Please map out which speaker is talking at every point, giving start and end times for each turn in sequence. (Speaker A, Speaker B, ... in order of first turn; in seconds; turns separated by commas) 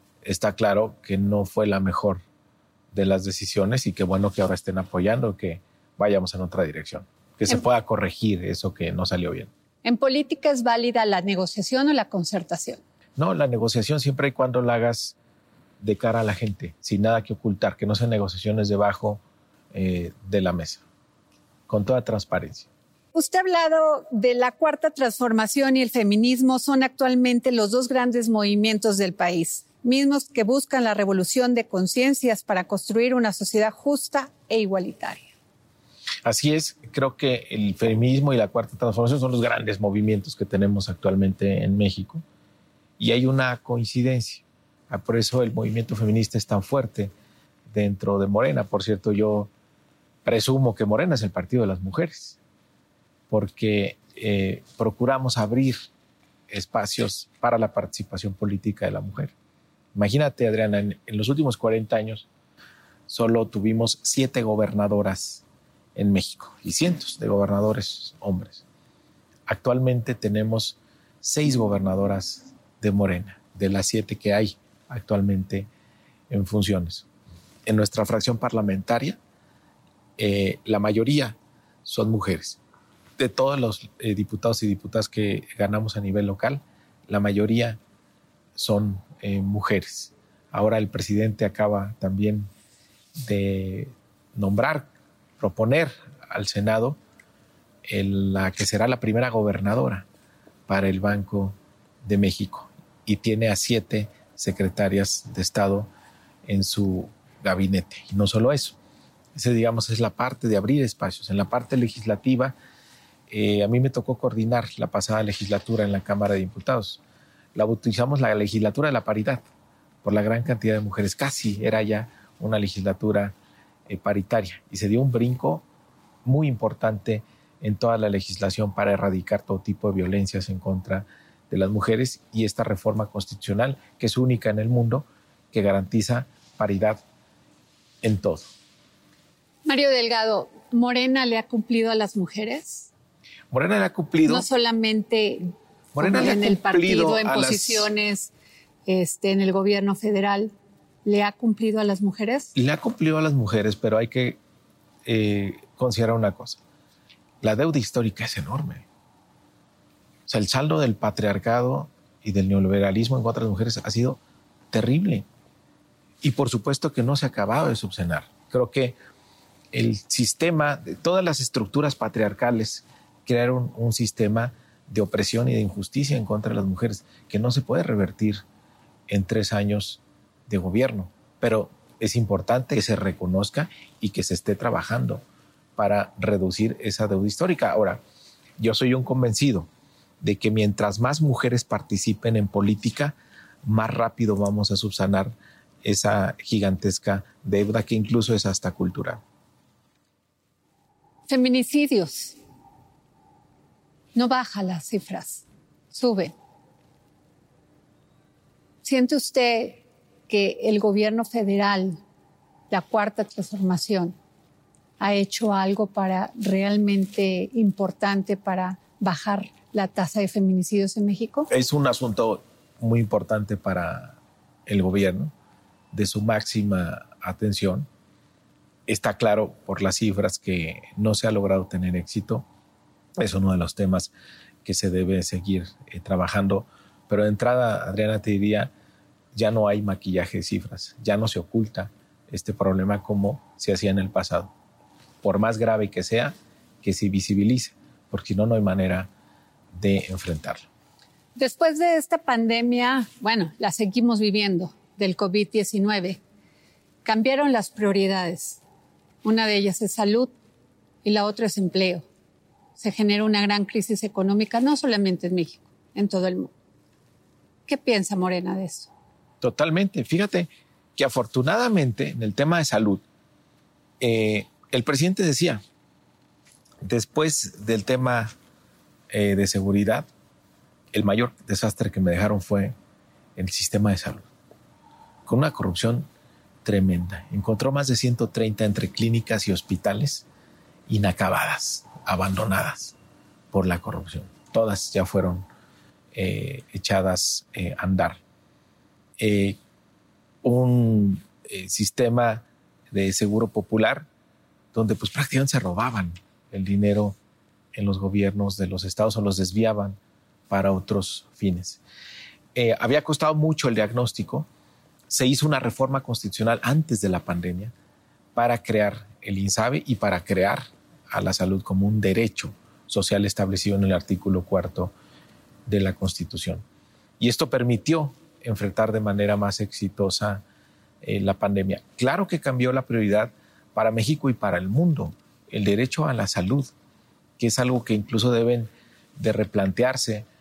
Speaker A: 0.2-2.2, Speaker A: 2.9-9.5, Speaker B: 9.8-12.8, Speaker A: 13.2-15.2, Speaker A: 15.8-20.8, Speaker A: 21.7-22.7, Speaker B: 23.1-35.3, Speaker A: 36.2-42.2, Speaker A: 43.0-47.1, Speaker A: 47.7-49.5, Speaker A: 50.2-52.4, Speaker A: 53.3-55.9, Speaker A: 56.5-59.3, Speaker A: 59.9-62.3, Speaker A: 63.1-65.4, Speaker A: 65.9-68.6, Speaker A: 69.5-75.7, Speaker A: 76.3-77.0, Speaker A: 77.6-79.2, Speaker A: 80.2-82.6, Speaker A: 83.2-87.8, Speaker A: 88.5-92.5, Speaker A: 93.2-97.0, Speaker A: 97.8-100.0, Speaker A: 100.7-105.9, Speaker A: 106.4-108.8, Speaker A: 109.3-112.5, Speaker A: 113.3-117.0, Speaker A: 117.5-119.5, Speaker A: 120.0-123.3, Speaker A: 123.9-125.6, Speaker A: 126.2-137.0, Speaker A: 138.0-138.5, Speaker B: 139.6-142.9, Speaker A: 143.5-144.4, Speaker B: 144.2-148.3, Speaker A: 145.9-147.9, Speaker B: 148.8-150.5, Speaker B: 151.0-152.5, Speaker A: 152.5-154.4, Speaker A: 155.0-156.6, Speaker A: 157.4-158.8, Speaker A: 160.3-164.2, Speaker A: 164.7-165.2, Speaker A: 166.2-168.9, Speaker A: 169.7-178.4, Speaker A: 179.1-185.2, Speaker A: 185.8-188.0, Speaker A: 188.6-189.7, Speaker A: 190.2-199.2, Speaker B: 201.3-202.4, Speaker B: 204.1-206.3, Speaker B: 208.8-212.0, Speaker B: 212.7-214.1, Speaker B: 215.0-221.5, Speaker A: 221.5-225.3, Speaker A: 225.9-227.9, Speaker A: 228.9-232.4, Speaker A: 233.2-234.1, Speaker A: 234.6-238.7, Speaker A: 239.3-244.5, Speaker A: 245.2-249.1, Speaker A: 249.7-250.7, Speaker B: 251.3-256.2, Speaker B: 257.0-258.6, Speaker B: 259.2-260.3, Speaker B: 261.0-262.1, Speaker B: 262.8-266.5, Speaker B: 267.7-268.9, Speaker A: 269.4-273.0, Speaker A: 274.0-275.6, Speaker A: 276.8-278.3, Speaker A: 279.1-280.1, Speaker A: 280.9-282.7, Speaker A: 283.4-284.3, Speaker A: 285.2-286.1, Speaker A: 286.6-290.2, Speaker A: 290.9-292.9, Speaker A: 293.5-295.5, Speaker A: 296.1-298.2, Speaker A: 299.2-299.6, Speaker A: 300.4-304.1, Speaker A: 304.7-307.2, Speaker A: 307.7-310.0, Speaker A: 310.5-311.8, Speaker A: 312.5-314.5, Speaker A: 315.1-317.7, Speaker A: 318.3-324.9, Speaker A: 325.6-326.6, Speaker A: 327.2-330.4, Speaker A: 331.0-336.7, Speaker A: 337.4-340.3